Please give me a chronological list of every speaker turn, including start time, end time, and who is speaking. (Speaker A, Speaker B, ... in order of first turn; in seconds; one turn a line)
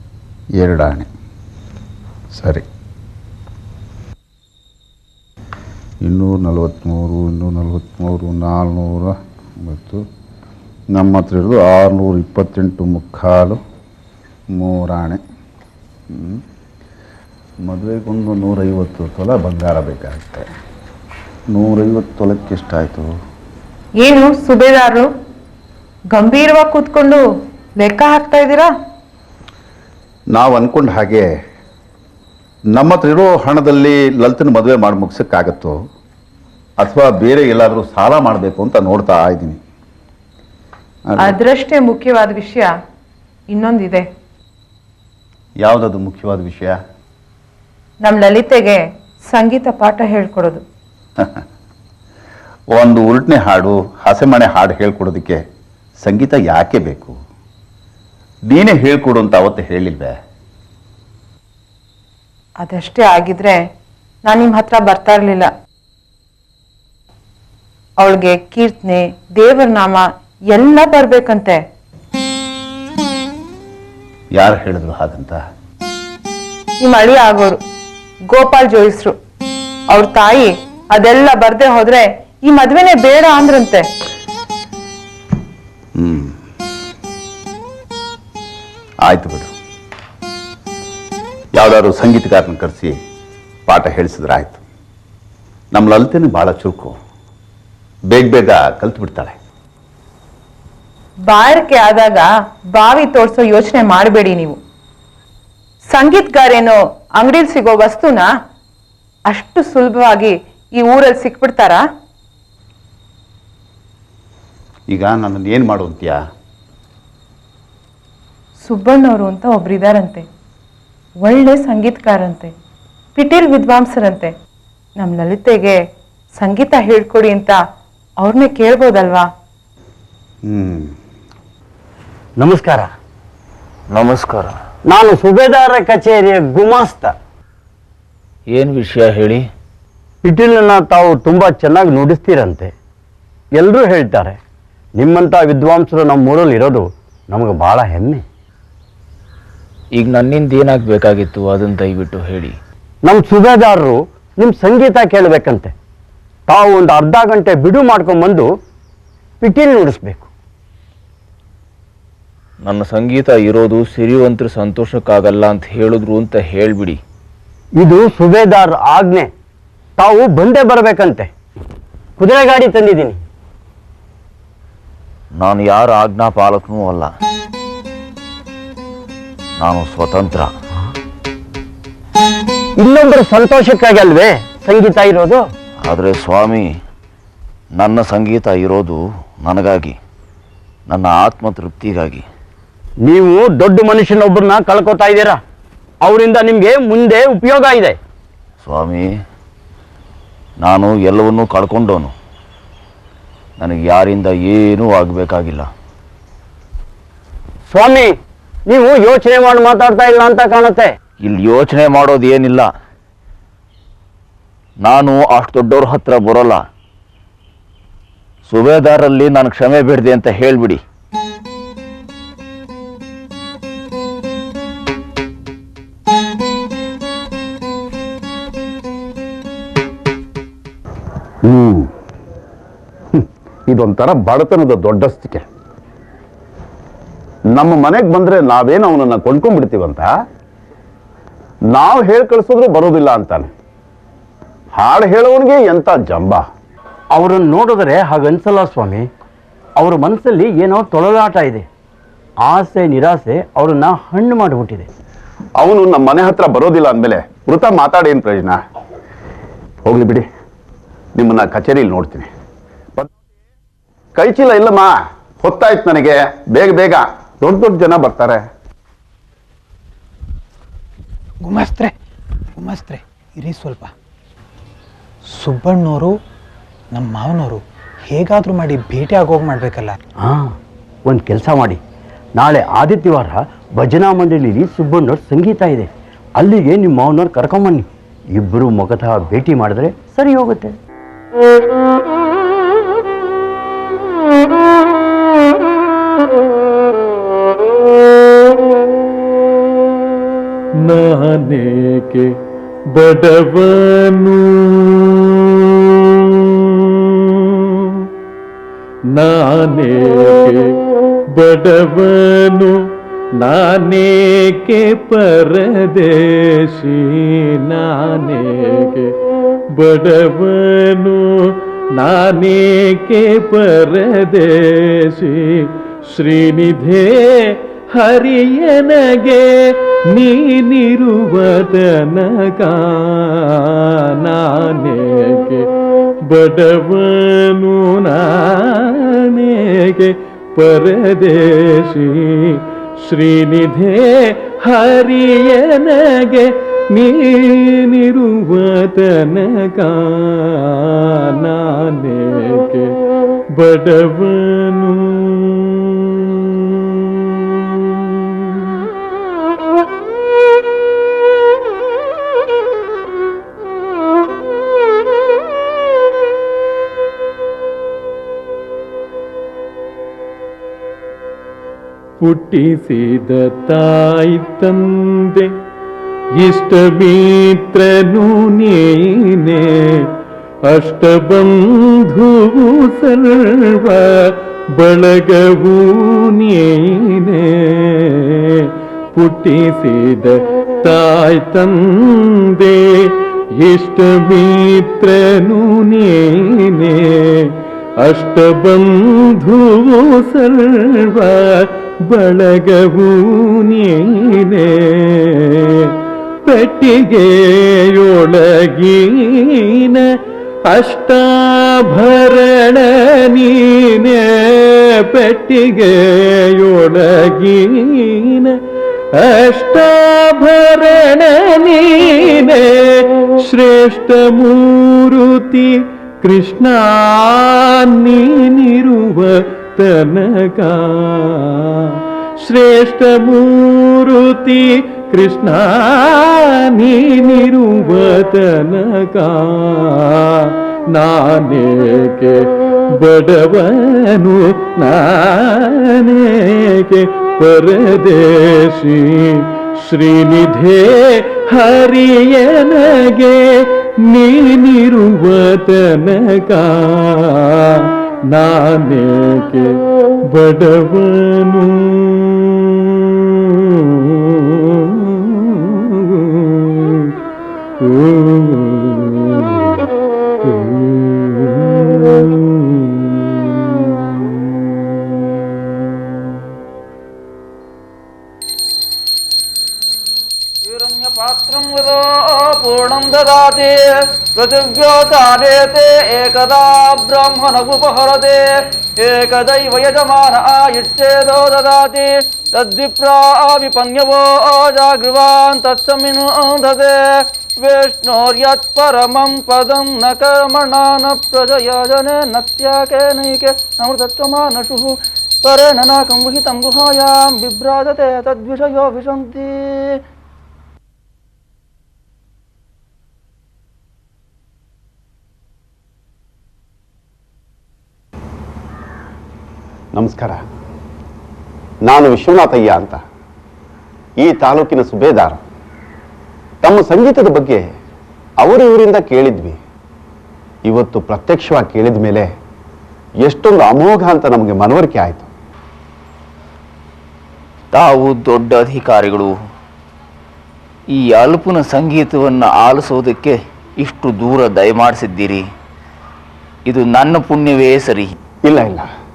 Speaker A: 0.6-1.1
Speaker A: 2.3-2.6
Speaker A: 6.0-10.0
Speaker A: 10.9-13.6
Speaker A: 14.5-15.2
Speaker A: 16.1-16.4
Speaker A: 17.6-20.5
Speaker A: 21.5-23.1
Speaker B: 24.0-25.1
Speaker B: 26.1-27.2
Speaker B: 27.8-28.7
Speaker A: 30.3-31.3
Speaker A: 32.7-35.8
Speaker A: 36.8-39.6
Speaker A: 41.1-41.4
Speaker B: 41.2-42.7
Speaker B: 43.5-44.1
Speaker A: 45.6-46.8
Speaker B: 48.0-50.6
Speaker A: 52.7-55.4
Speaker A: 56.0-57.1
Speaker A: 58.5-60.2
Speaker B: 62.6-63.6
Speaker B: 64.2-65.5
Speaker B: 68.0-71.6
Speaker A: 74.3-75.4
Speaker B: 76.8-77.6
Speaker B: 78.3-79.2
Speaker B: 79.9-83.9
Speaker A: 86.0-86.3
Speaker A: 89.0-89.5
Speaker A: 91.5-93.0
Speaker A: 93.7-94.6
Speaker A: 95.7-97.0
Speaker A: 98.1-99.3
Speaker B: 101.3-104.6
Speaker B: 105.9-108.3
Speaker B: 109.3-111.8
Speaker A: 114.9-116.2
Speaker B: 118.6-120.2
Speaker B: 121.2-122.5
Speaker B: 123.2-124.3
Speaker B: 125.0-125.8
Speaker B: 126.4-127.6
Speaker B: 128.2-129.2
Speaker A: 130.5-130.9
Speaker C: 132.4-132.9
Speaker D: 133.9-134.6
Speaker C: 134.9-137.1
Speaker D: 138.5-139.4
Speaker C: 140.2-142.7
Speaker C: 143.6-144.4
Speaker C: 145.0-148.2
Speaker D: 150.0-152.6
Speaker C: 153.1-155.7
Speaker C: 156.5-158.5
Speaker C: 159.4-160.3
Speaker D: 162.6-167.0
Speaker C: 167.8-169.3
Speaker C: 170.0-171.3
Speaker C: 172.2-173.2
Speaker D: 175.4-177.1
Speaker D: 179.6-180.5
Speaker C: 182.8-185.4
Speaker D: 185.8-186.7
Speaker D: 187.8-189.9
Speaker D: 190.9-192.2
Speaker C: 193.0-195.4
Speaker C: 196.0-198.0
Speaker D: 198.6-199.1
Speaker D: 200.6-202.1
Speaker D: 203.6-205.7
Speaker C: 207.7-208.1
Speaker C: 208.7-210.9
Speaker D: 211.2-212.7
Speaker D: 214.8-216.6
Speaker D: 218.5-220.8
Speaker A: 231.5-231.8
Speaker A: 233.7-235.4
Speaker A: 237.6-240.0
Speaker A: 241.7-243.5
Speaker A: 244.8-246.4
Speaker C: 247.1-249.1
Speaker C: 249.8-251.7
Speaker C: 252.4-254.9
Speaker A: 255.6-258.6
Speaker A: 259.8-260.2
Speaker A: 261.2-262.2
Speaker A: 264.2-264.9
Speaker A: 265.4-268.4
Speaker E: 271.4-271.9
Speaker E: 272.6-273.9
Speaker E: 275.4-276.1
Speaker E: 276.9-279.9
Speaker C: 280.2-280.5
Speaker C: 281.1-281.8
Speaker C: 282.4-290.7
Speaker F: 300.8-302.3
Speaker F: 302.9-308.1
Speaker F: 309.1-310.7
Speaker F: 311.4-312.8
Speaker F: 313.4-319.1
Speaker F: 319.8-335.6
Speaker F: 336.3-352.9
Speaker F: 353.6-358.6
Speaker F: 372.2-375.5
Speaker F: 376.4-380.1
Speaker F: 380.7-405.9
Speaker F: 406.4-410.1
Speaker F: 410.7-418.6
Speaker F: 419.2-459.8
Speaker F: 460.3-467.1
Speaker F: 467.8-469.9
Speaker F: 470.4-474.4
Speaker G: 480.6-483.9
Speaker G: 484.4-488.5
Speaker G: 489.0-497.0
Speaker G: 497.6-510.0
Speaker A: 519.9-520.4
Speaker A: 521.9-523.0
Speaker A: 524.2-525.4
Speaker A: 526.6-527.7
Speaker A: 528.4-529.6
Speaker A: 530.6-532.3
Speaker A: 533.2-535.3
Speaker D: 537.7-539.3
Speaker D: 540.9-545.4
Speaker D: 546.7-548.1
Speaker A: 548.5-548.9